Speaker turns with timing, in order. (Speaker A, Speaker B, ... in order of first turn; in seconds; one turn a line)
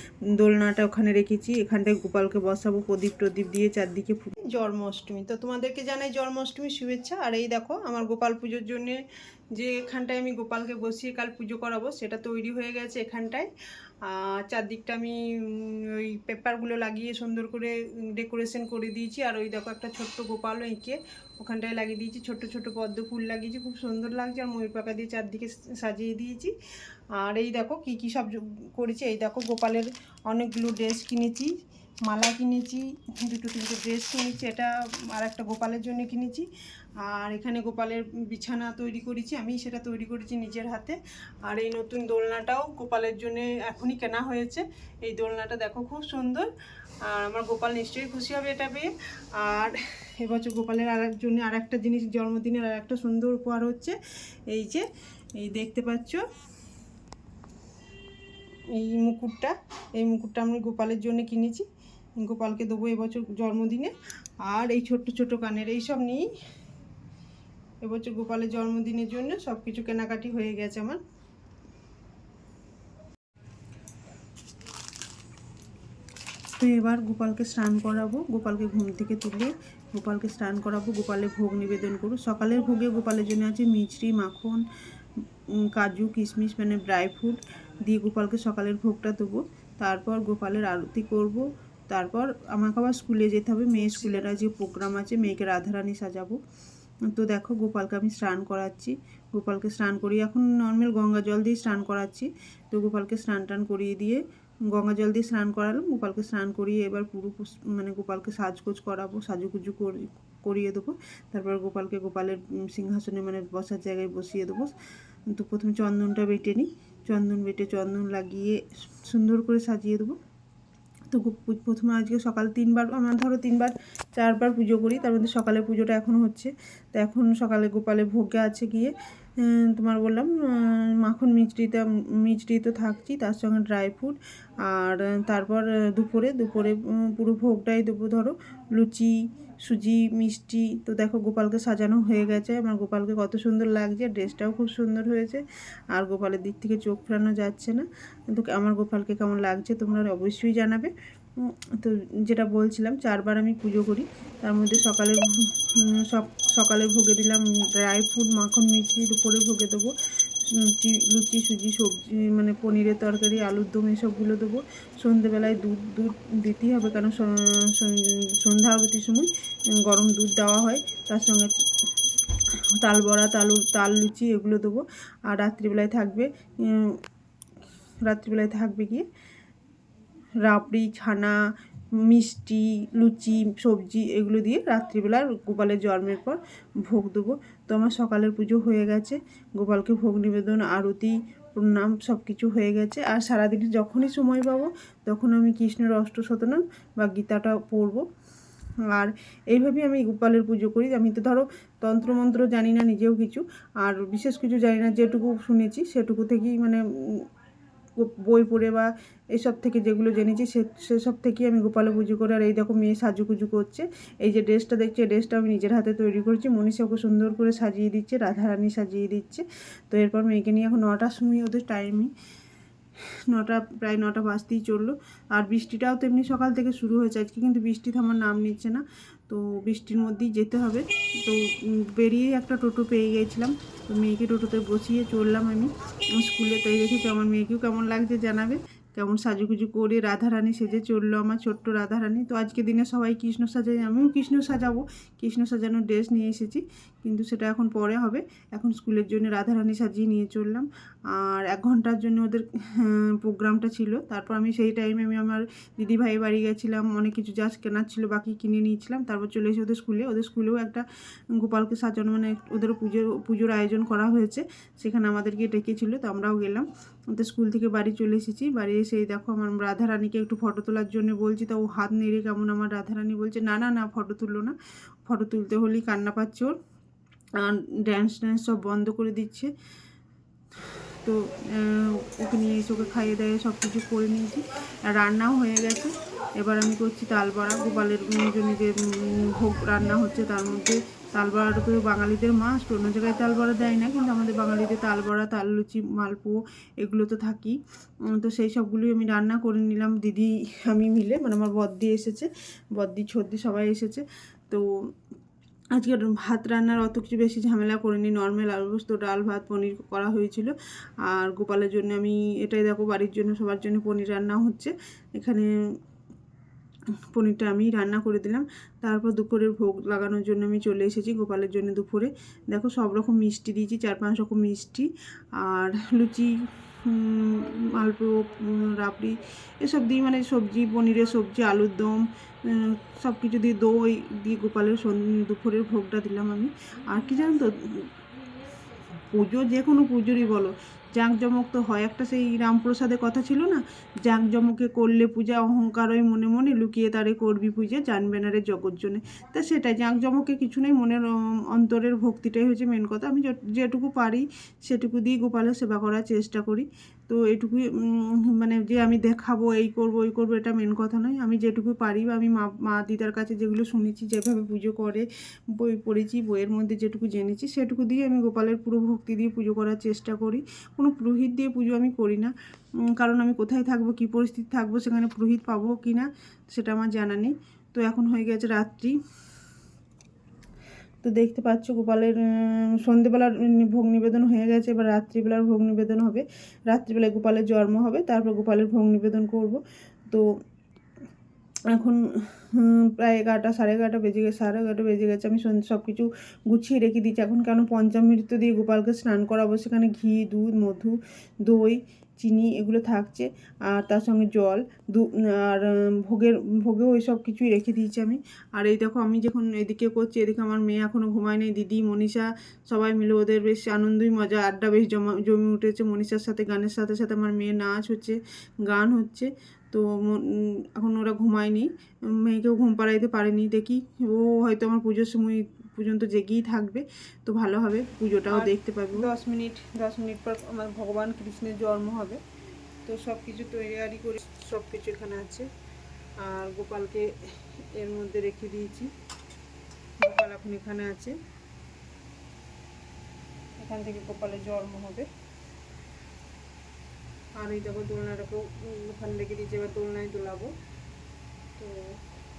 Speaker A: 0.3-9.0
Speaker A: 9.5-13.5
Speaker A: 14.0-26.6
Speaker A: 27.1-46.5
Speaker A: 47.0-56.2
Speaker A: 58.7-61.7
Speaker A: 62.2-66.3
Speaker A: 67.8-71.0
Speaker A: 76.6-84.7
Speaker A: 85.6-96.4
Speaker A: 97.1-114.7
Speaker A: 115.3-120.2
Speaker A: 121.1-171.6
Speaker A: 172.4-177.0
Speaker A: 178.0-179.1
Speaker A: 180.4-181.4
Speaker A: 181.9-198.1
Speaker A: 198.9-207.3
Speaker A: 207.9-222.1
Speaker A: 223.3-276.6
Speaker A: 277.4-279.5
Speaker A: 280.6-304.7
Speaker A: 305.7-315.5
Speaker A: 317.0-337.9
Speaker A: 338.9-379.0
Speaker A: 381.0-390.3
Speaker A: 391.7-432.2
Speaker A: 432.9-435.5
Speaker A: 436.2-438.9
Speaker A: 440.0-441.2
Speaker A: 443.6-445.1
Speaker A: 447.4-450.5
Speaker A: 451.6-451.9